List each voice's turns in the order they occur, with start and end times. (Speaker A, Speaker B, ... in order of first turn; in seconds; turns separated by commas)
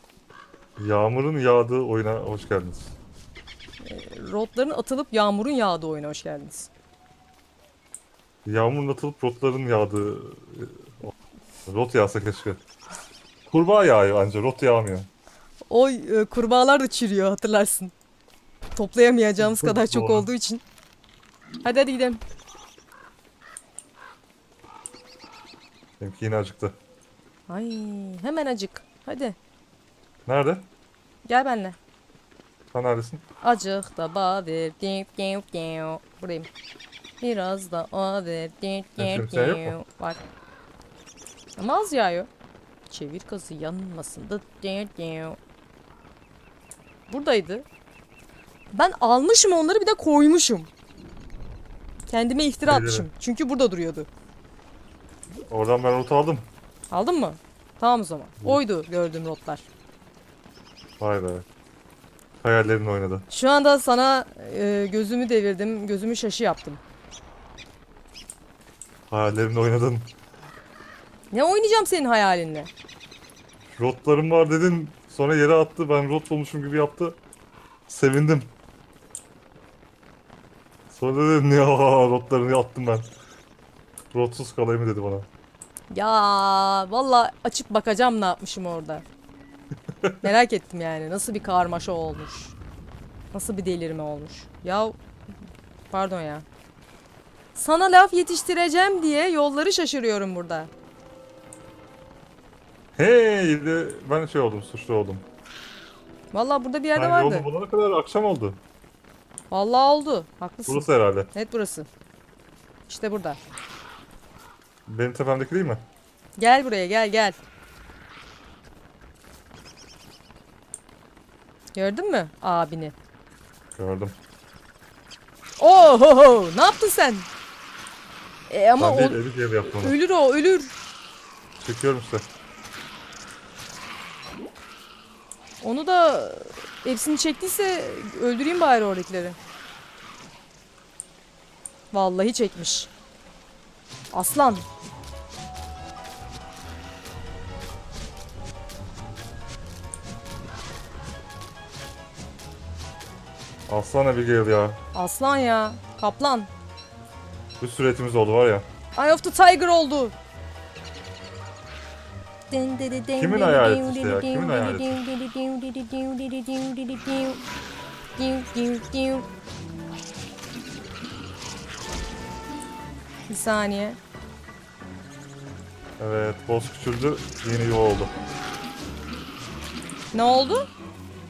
Speaker A: 0.8-2.9, Speaker B: 3.8-6.7, Speaker A: 8.4-11.1, Speaker A: 11.7-12.6, Speaker A: 13.5-15.1, Speaker B: 15.7-17.9, Speaker B: 18.7-20.6, Speaker A: 19.4-20.3, Speaker B: 21.6-22.2, Speaker A: 26.0-26.8, Speaker B: 27.5-29.4, Speaker A: 30.2-30.7, Speaker B: 31.2-31.8, Speaker A: 32.7-33.2, Speaker B: 33.4-36.5, Speaker B: 37.2-40.2, Speaker A: 39.0-39.8, Speaker B: 41.5-42.3, Speaker B: 42.9-45.4, Speaker B: 47.1-47.6, Speaker B: 48.7-50.7, Speaker B: 52.1-54.1, Speaker A: 52.6-53.1, Speaker A: 55.5-56.5, Speaker B: 56.9-59.7, Speaker A: 61.0-61.5, Speaker A: 62.4-63.3, Speaker B: 63.3-66.8, Speaker A: 69.1-70.1, Speaker B: 71.3-72.7, Speaker A: 73.7-77.2, Speaker A: 77.9-78.5, Speaker A: 80.9-83.1, Speaker A: 84.1-85.3, Speaker B: 85.9-89.0, Speaker B: 90.2-92.5, Speaker B: 93.3-95.0, Speaker B: 95.9-96.4, Speaker B: 97.5-100.7, Speaker A: 103.0-105.2, Speaker B: 106.3-107.5, Speaker A: 106.9-108.6, Speaker B: 109.5-111.9, Speaker A: 110.7-111.3, Speaker B: 112.9-113.4, Speaker A: 114.9-115.8, Speaker B: 116.4-117.4, Speaker B: 121.7-122.9, Speaker A: 123.8-124.1, Speaker B: 125.6-127.3, Speaker B: 128.5-130.7, Speaker A: 128.8-129.9, Speaker A: 131.6-132.2, Speaker B: 135.6-139.4, Speaker B: 141.9-142.9, Speaker B: 144.1-144.7, Speaker A: 153.7-154.8, Speaker B: 154.9-156.5, Speaker A: 157.6-158.7, Speaker B: 158.9-160.1, Speaker B: 162.5-167.4, Speaker A: 163.1-165.0, Speaker B: 168.2-169.3, Speaker B: 173.3-174.0, Speaker A: 176.0-178.2, Speaker B: 180.1-180.7